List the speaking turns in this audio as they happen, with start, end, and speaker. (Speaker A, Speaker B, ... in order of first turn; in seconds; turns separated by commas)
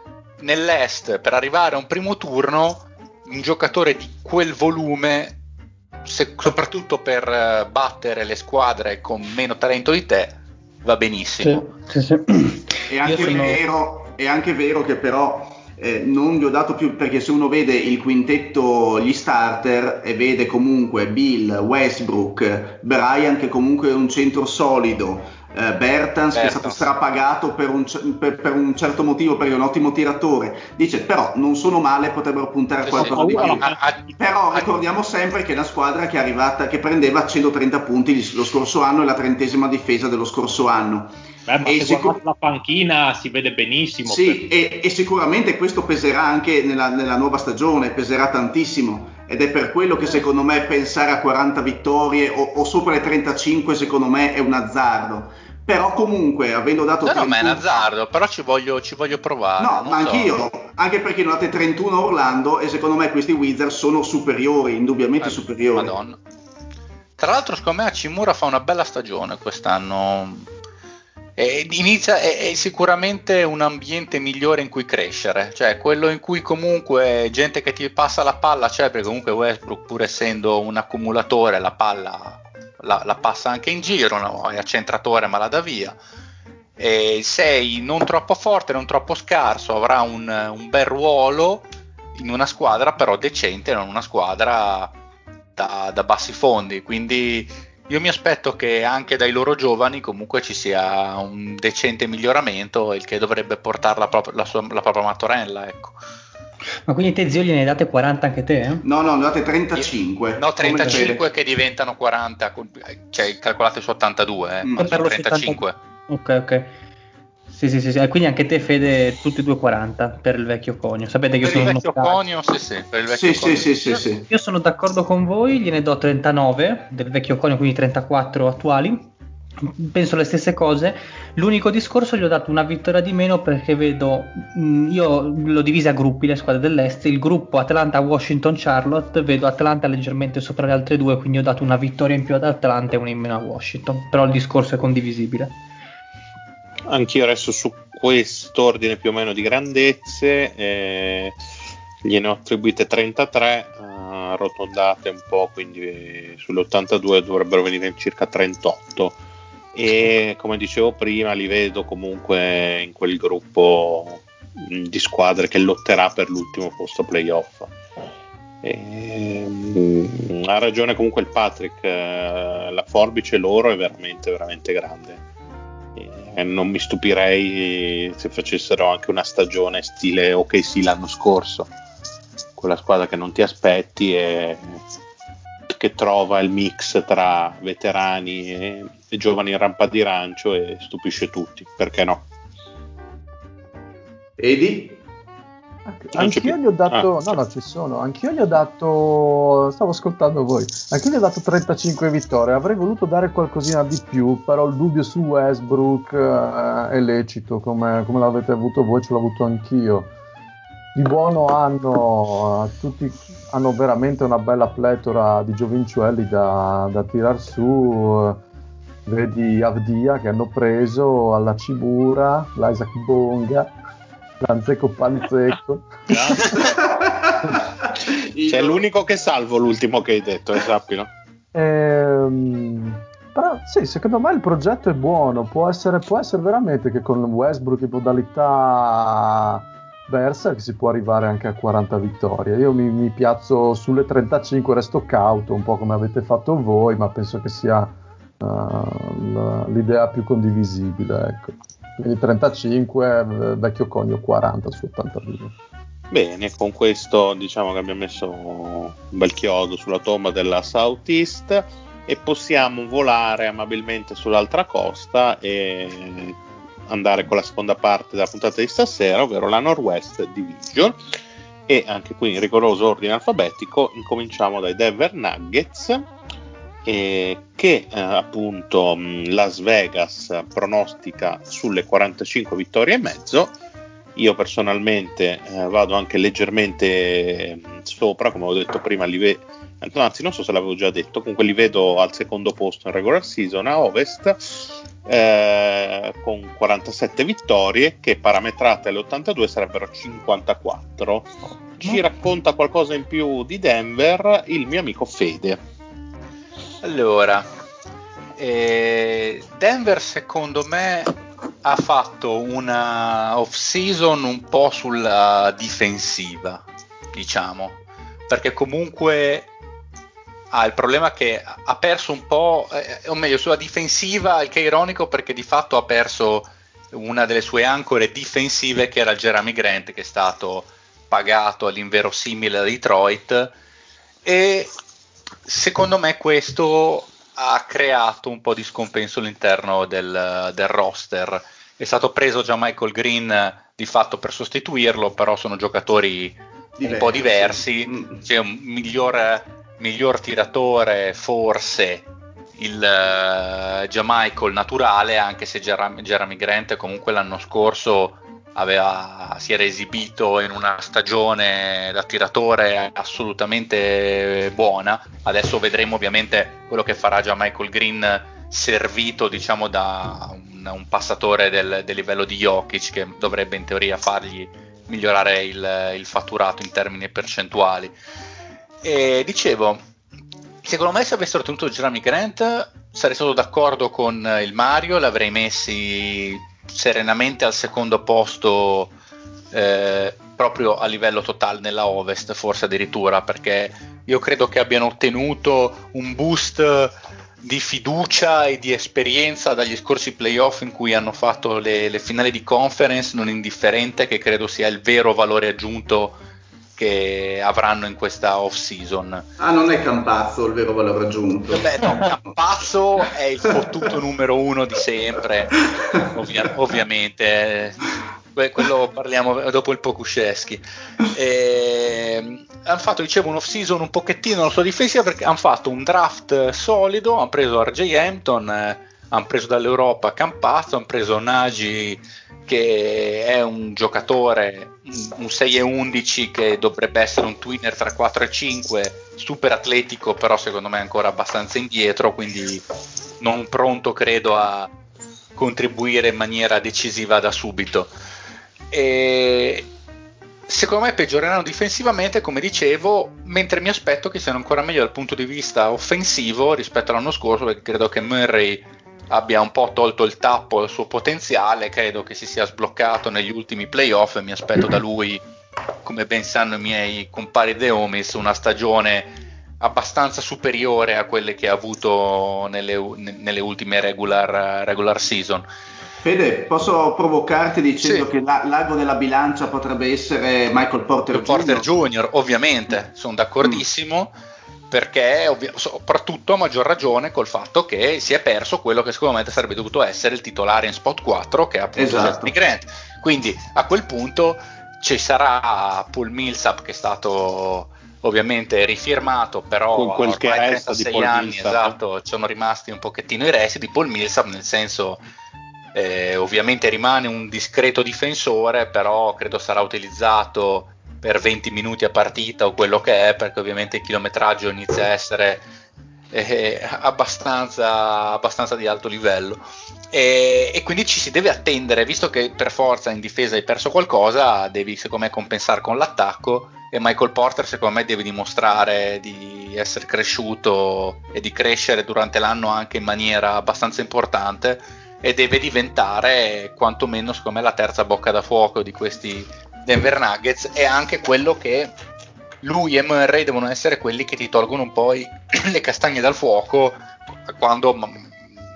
Speaker A: 0.4-5.3, Speaker A: 6.0-11.7, Speaker B: 11.4-13.6, Speaker C: 12.9-33.6, Speaker A: 13.1-13.6, Speaker A: 26.3-26.8, Speaker A: 32.8-34.8, Speaker D: 32.9-33.8, Speaker C: 34.2-42.2, Speaker D: 41.5-44.4, Speaker C: 44.0-57.8, Speaker A: 57.0-60.4, Speaker C: 59.6-65.9, Speaker A: 65.2-66.2, Speaker A: 67.2-70.5, Speaker A: 71.4-86.0, Speaker A: 86.8-94.9, Speaker A: 95.5-106.0, Speaker B: 106.9-108.8, Speaker C: 108.8-111.2, Speaker A: 109.8-115.8, Speaker C: 114.6-114.9, Speaker B: 114.8-116.7, Speaker B: 117.5-122.2, Speaker A: 121.4-124.0, Speaker C: 123.1-124.3, Speaker B: 124.3-129.1, Speaker B: 129.6-145.5, Speaker E: 146.9-151.3, Speaker E: 152.0-159.2, Speaker E: 159.7-167.7, Speaker E: 168.6-175.2, Speaker E: 175.9-181.7, Speaker E: 182.6-184.8, Speaker E: 185.7-192.2, Speaker C: 194.4-195.0, Speaker F: 195.8-210.1, Speaker E: 196.1-197.1, Speaker F: 210.9-218.4, Speaker F: 219.1-223.7, Speaker F: 224.4-226.5, Speaker D: 226.1-226.6, Speaker C: 226.6-228.8, Speaker E: 228.5-231.1, Speaker F: 231.5-255.5, Speaker E: 256.1-271.0, Speaker E: 271.7-276.1, Speaker E: 276.8-283.5, Speaker E: 284.1-305.6, Speaker A: 306.8-307.5, Speaker A: 308.4-316.6, Speaker A: 317.1-317.8, Speaker A: 318.3-319.5, Speaker A: 320.5-333.5, Speaker A: 334.2-334.7, Speaker A: 335.4-352.1, Speaker C: 346.8-348.2, Speaker A: 352.6-377.9, Speaker A: 378.8-379.8, Speaker A: 380.6-388.9, Speaker A: 389.5-406.2, Speaker A: 406.8-409.2, Speaker C: 409.4-412.1, Speaker A: 411.5-415.6, Speaker A: 416.1-417.8, Speaker A: 418.3-442.6, Speaker A: 443.2-444.7, Speaker A: 445.4-447.9, Speaker A: 448.7-449.7, Speaker A: 450.5-465.2, Speaker A: 465.8-475.5, Speaker C: 476.0-481.7, Speaker A: 477.8-478.1, Speaker A: 481.1-484.1, Speaker A: 484.7-505.0, Speaker C: 491.7-492.3, Speaker E: 499.7-501.8, Speaker A: 505.7-515.4, Speaker A: 516.1-541.7, Speaker A: 542.4-548.1